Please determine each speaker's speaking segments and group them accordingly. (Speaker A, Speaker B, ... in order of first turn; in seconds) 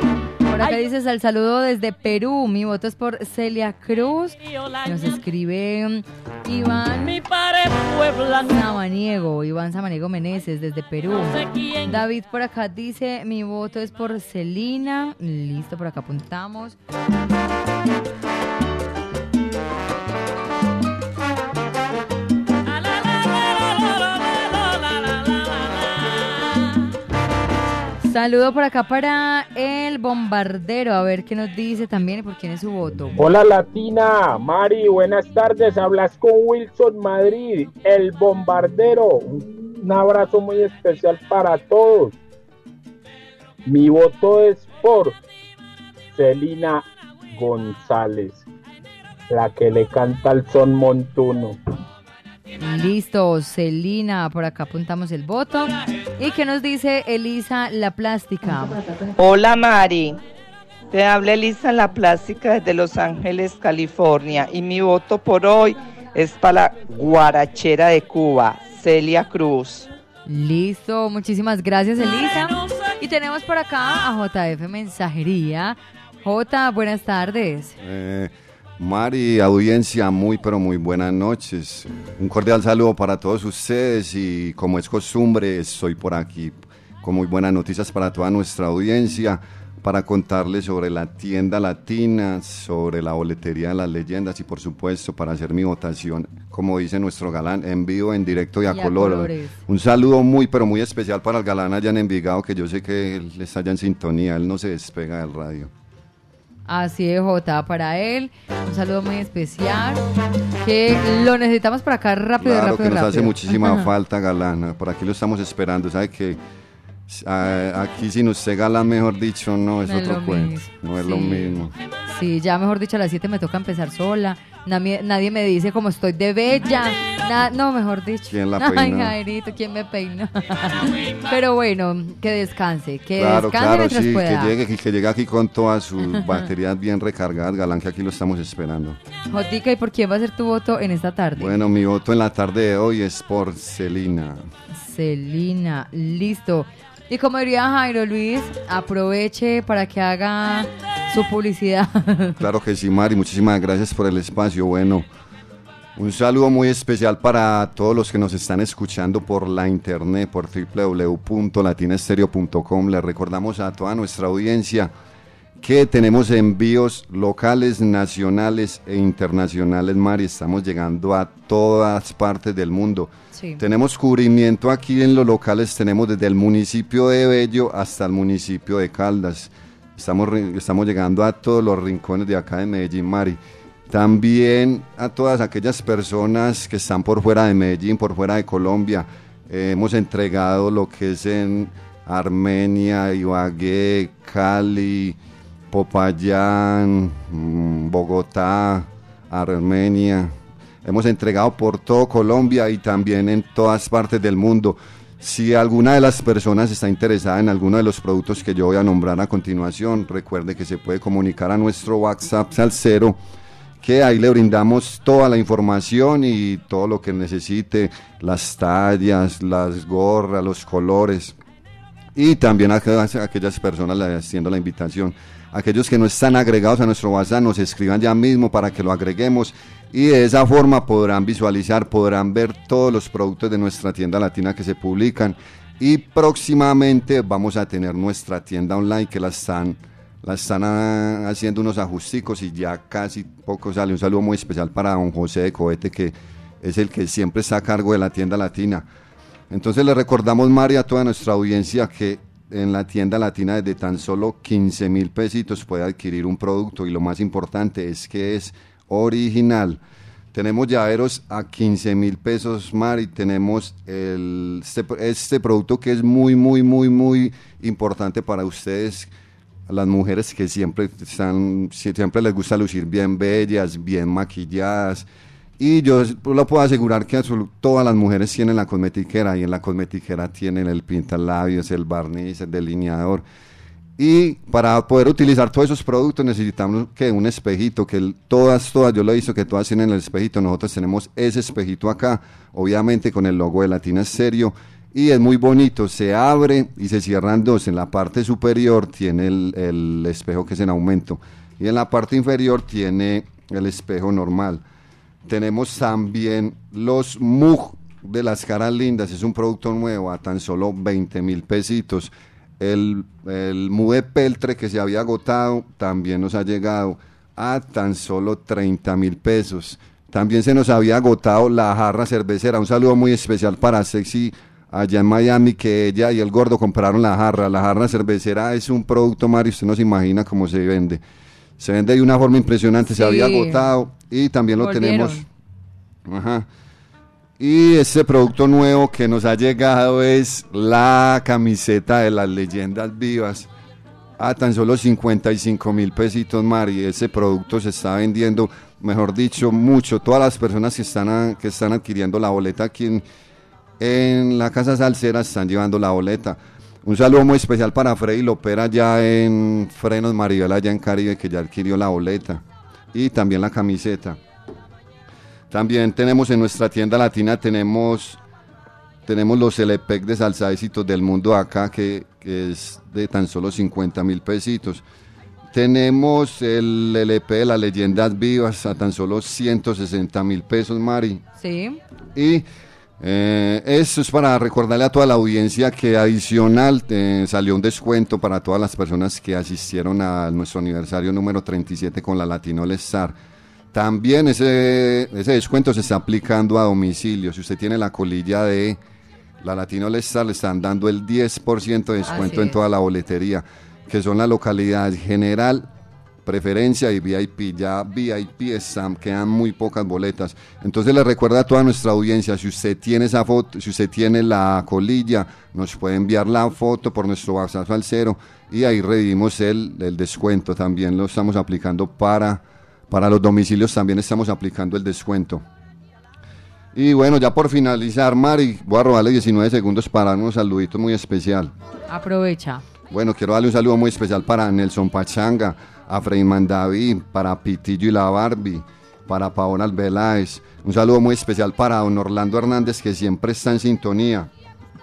Speaker A: 0.5-7.2, 8.4-16.8, 28.0-33.2, 52.6-58.8, 70.2-77.8, 98.7-99.6, 106.7-110.0, 110.6-113.9, 119.8-134.5, 136.0-136.4, 139.3-141.6, 144.7-152.4, 173.3-173.6, 332.9-333.7, 334.6-335.2, 381.4-381.8, 402.0-402.6, 431.9-432.6
Speaker B: 4.4-5.2, 7.0-8.7, 11.1-12.0, 22.6-26.9, 72.2-73.0
Speaker C: 33.2-42.2, 43.7-45.1, 46.1-48.4, 49.3-51.6
Speaker D: 59.2-60.2, 60.9-69.9
Speaker E: 77.8-105.7, 112.4-116.4, 117.1-121.7, 128.3-129.1, 133.2-139.0, 141.4-144.4, 152.4-155.1, 155.9-164.9, 165.6-195.2, 195.7-213.2, 213.8-221.3, 222.1-248.8, 249.5-259.8, 260.3-269.1, 269.7-275.1, 275.6-283.2, 284.0-304.6, 305.2-331.0, 331.6-335.2, 336.1-336.4, 337.4-343.5, 344.2-353.0, 353.8-364.2, 365.5-368.2, 369.1-374.8, 375.5-381.2, 382.1-382.4, 383.0-393.1, 393.7-398.8, 399.4-405.7, 406.2-425.4, 426.7-431.5, 432.9-444.3